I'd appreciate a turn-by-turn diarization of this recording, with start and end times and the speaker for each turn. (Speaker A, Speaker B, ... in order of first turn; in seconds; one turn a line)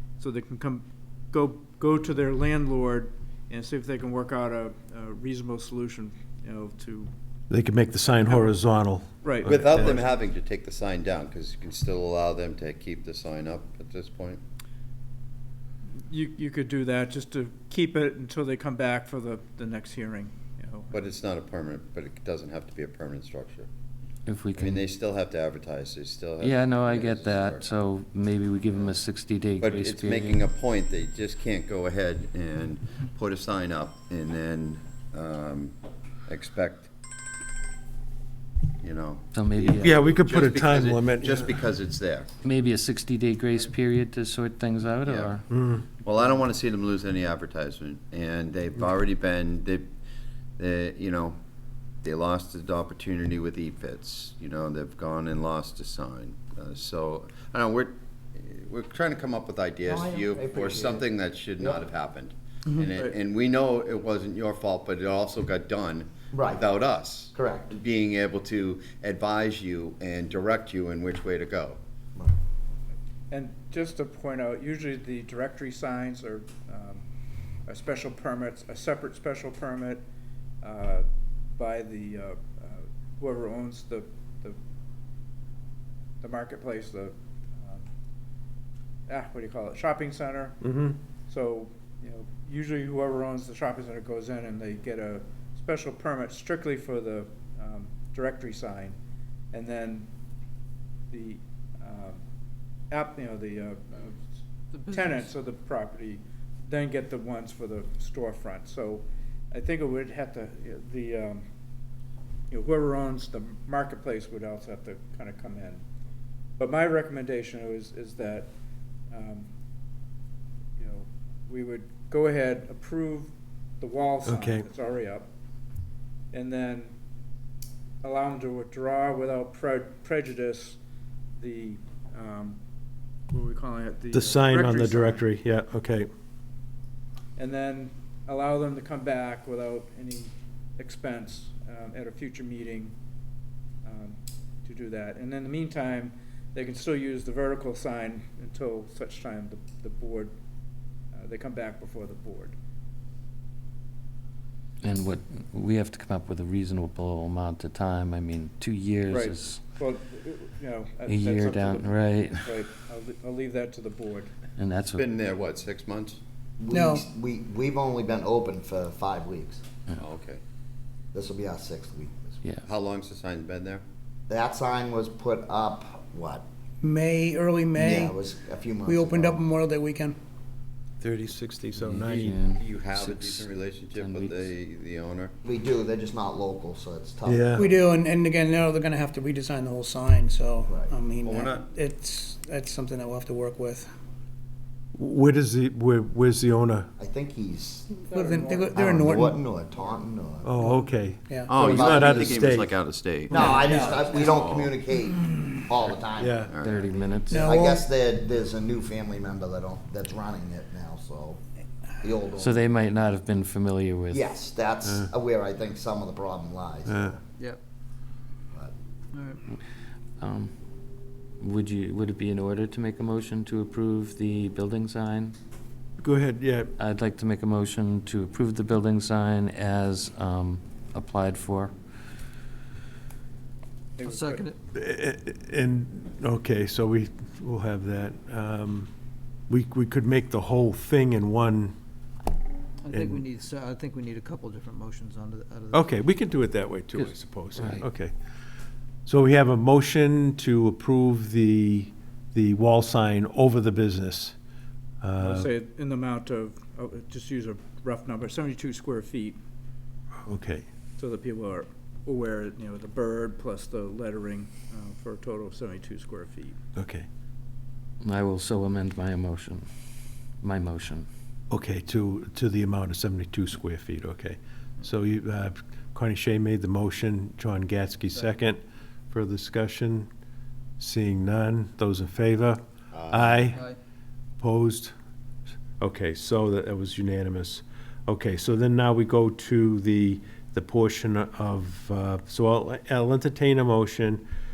Speaker A: 0.2-7.1
Speaker B: 7.5-10.0
Speaker A: 9.2-10.0
Speaker C: 9.4-14.4
Speaker A: 16.0-21.0
Speaker C: 20.9-23.7
Speaker D: 24.3-24.8
Speaker C: 24.6-27.7
Speaker D: 26.4-30.4
Speaker C: 29.6-35.8
Speaker C: 36.3-36.9
Speaker C: 38.8-42.3
Speaker D: 39.3-40.0
Speaker B: 39.8-41.7
Speaker D: 42.4-45.4
Speaker C: 45.0-45.4
Speaker B: 45.5-45.9
Speaker C: 46.0-49.9
Speaker C: 50.6-51.4
Speaker C: 52.0-71.8
Speaker E: 59.8-61.9
Speaker E: 66.3-66.7
Speaker E: 67.3-67.7
Speaker A: 73.3-77.0
Speaker A: 77.7-80.0
Speaker A: 80.6-84.6
Speaker A: 86.2-87.9
Speaker A: 89.1-90.6
Speaker B: 90.6-91.0
Speaker A: 91.3-99.0
Speaker A: 99.5-100.1
Speaker A: 101.1-102.2
Speaker A: 102.9-104.2
Speaker F: 104.7-105.3
Speaker A: 104.9-111.4
Speaker A: 112.5-115.8
Speaker A: 116.6-118.5
Speaker A: 119.1-119.5
Speaker A: 120.8-125.3
Speaker B: 124.2-124.7
Speaker A: 126.3-127.0
Speaker A: 128.0-130.8
Speaker A: 131.4-132.6
Speaker A: 133.3-135.2
Speaker B: 134.1-136.1
Speaker A: 137.4-142.9
Speaker A: 143.8-150.3
Speaker A: 151.1-152.6
Speaker D: 154.8-159.6
Speaker A: 159.1-164.3
Speaker D: 161.1-162.4
Speaker D: 164.6-165.1
Speaker C: 165.0-166.2
Speaker E: 166.6-169.6
Speaker G: 166.7-167.1
Speaker C: 169.9-170.4
Speaker E: 171.1-172.4
Speaker C: 172.6-173.8
Speaker E: 174.3-176.4
Speaker G: 176.8-178.2
Speaker E: 177.8-179.4
Speaker G: 178.8-180.2
Speaker B: 181.0-182.4
Speaker D: 181.8-184.5
Speaker C: 182.5-185.3
Speaker E: 185.4-187.6
Speaker B: 187.2-187.7
Speaker G: 187.5-193.9
Speaker E: 190.7-190.9
Speaker C: 191.2-191.7
Speaker B: 194.9-196.9
Speaker E: 197.0-197.9
Speaker A: 198.1-198.9
Speaker G: 198.1-199.4
Speaker E: 198.7-200.6
Speaker B: 200.4-202.8
Speaker G: 200.6-202.3
Speaker C: 201.5-204.8
Speaker E: 201.5-202.4
Speaker G: 203.3-204.0
Speaker E: 203.3-206.5
Speaker B: 206.2-206.6
Speaker C: 206.4-206.9
Speaker D: 206.6-207.5
Speaker G: 207.3-207.8
Speaker E: 207.4-211.4
Speaker E: 212.0-212.6
Speaker D: 212.4-214.3
Speaker E: 214.1-217.2
Speaker B: 216.9-217.2
Speaker F: 219.1-219.4
Speaker D: 220.2-220.6
Speaker D: 221.4-225.4
Speaker B: 226.0-226.7
Speaker D: 226.8-231.7
Speaker A: 234.0-234.5
Speaker F: 234.0-234.6
Speaker B: 234.7-238.9
Speaker B: 239.5-241.8
Speaker F: 242.8-245.9
Speaker B: 242.9-243.2
Speaker B: 245.7-248.1
Speaker D: 247.0-247.8
Speaker B: 249.1-254.4
Speaker B: 255.0-255.5
Speaker A: 255.2-259.4
Speaker B: 260.2-260.7
Speaker A: 261.0-266.6
Speaker B: 266.8-267.1
Speaker D: 268.0-269.7
Speaker D: 270.4-271.1
Speaker B: 271.5-280.1
Speaker B: 280.8-283.7
Speaker C: 282.9-283.6
Speaker F: 283.5-283.8
Speaker B: 284.4-284.9
Speaker B: 285.8-294.2